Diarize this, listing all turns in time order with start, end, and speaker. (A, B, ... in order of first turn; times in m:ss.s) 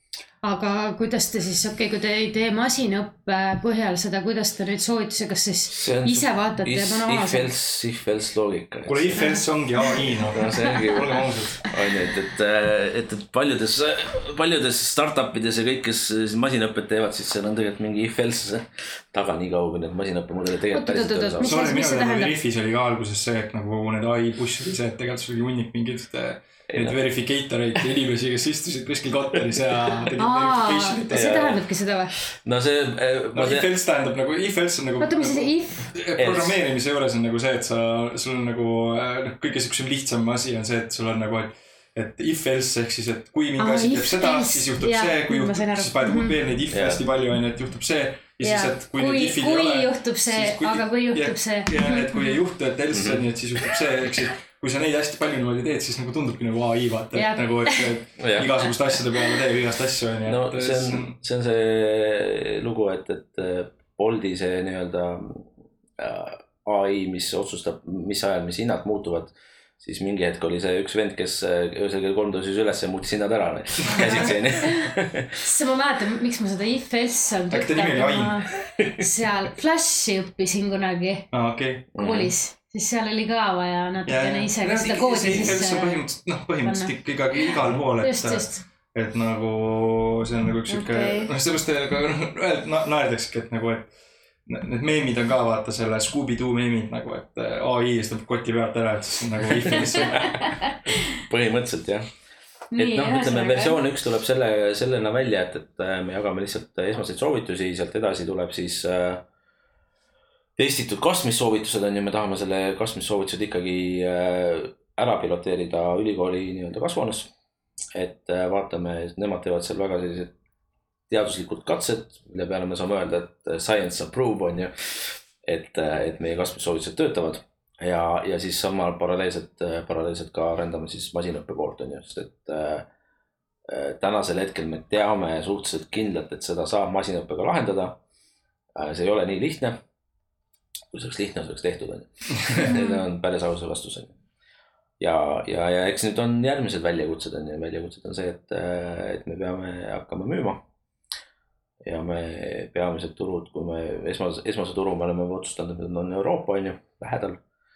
0:00.4-0:07.5 A
0:05.7-0:09.3 B
0:08.8-0:11.7 C
0:09.2-0:10.0 A
0:10.3-0:21.6 B
0:20.7-0:22.4 A
0:21.4-0:31.6 C
0:26.7-0:27.0 B
0:30.2-0:32.1 A
0:31.1-0:31.6 B
0:32.3-0:33.7 B
0:33.3-1:01.2 C
0:35.0-0:35.9 A
0:36.1-0:36.6 B
0:43.6-0:46.4 A
0:46.7-0:47.0 B
0:48.4-0:52.4 A
0:52.9-0:53.2 B
0:57.1-0:58.0 A
0:58.2-0:58.5 B
1:00.2-1:15.4 B
1:13.8-1:14.3 C
1:13.9-1:14.8 A
1:15.4-1:21.3 A
1:17.5-1:18.4 C
1:18.7-1:19.0 B
1:21.3-1:21.9 C
1:21.9-1:22.3 B
1:22.0-1:26.0 A
1:24.0-1:33.9 C
1:26.6-1:28.6 A
1:30.7-1:31.3 A
1:34.4-1:40.4 C
1:39.6-1:42.1 B
1:42.7-1:43.8 A
1:42.8-1:49.2 B
1:50.6-1:57.3 B
1:57.9-2:00.3 B
2:01.1-2:12.9 B
2:13.7-2:18.0 B
2:18.8-2:19.8 B
2:20.9-2:24.1 B
2:22.6-2:23.0 A
2:25.0-2:30.6 B
2:31.8-2:37.4 B